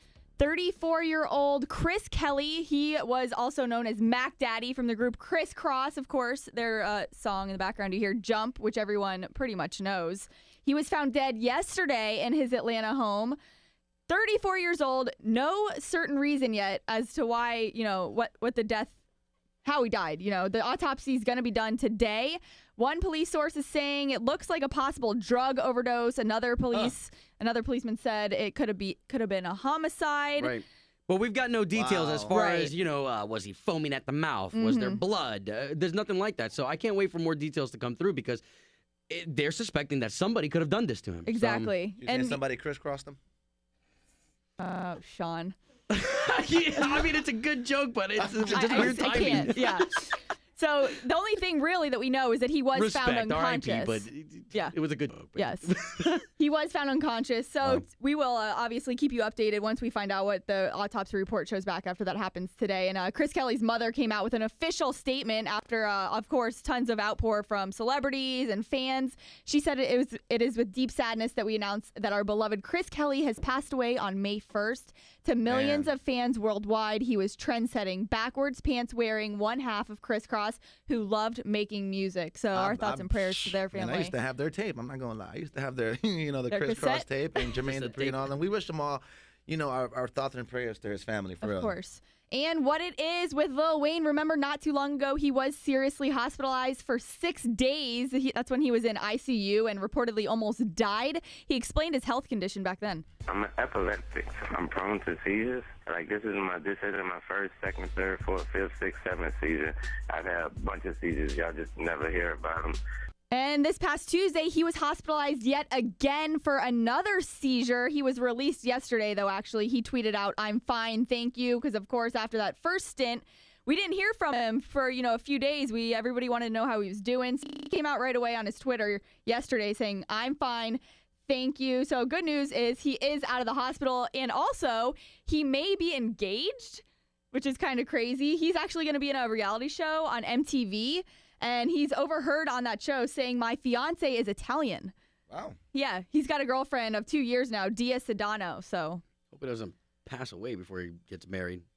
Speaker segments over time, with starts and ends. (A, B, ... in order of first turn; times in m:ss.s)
0:00.4-0:13.4 A
0:14.1-0:19.0 A
0:19.6-0:30.6 A
0:30.4-0:38.4 B
0:31.7-0:32.4 C
0:32.3-0:32.7 A
0:34.5-0:35.0 A
0:39.1-0:41.7 B
0:41.2-0:42.4 A
0:42.0-0:43.2 C
0:44.6-0:45.6 A
0:45.9-0:50.0 B
0:48.2-0:49.5 C
0:48.4-0:54.7 A
0:52.7-0:56.2 B
0:55.3-0:55.7 A
0:56.3-1:24.2 A
1:15.5-1:15.9 C
1:22.5-1:31.8 C
1:26.5-1:27.6 A
1:27.6-1:28.3 B
1:31.4-1:43.0 A
1:43.3-1:52.8 D
1:53.3-2:24.9 A
2:25.3-2:25.6 C
2:25.7-2:29.0 A
2:29.3-2:31.6 B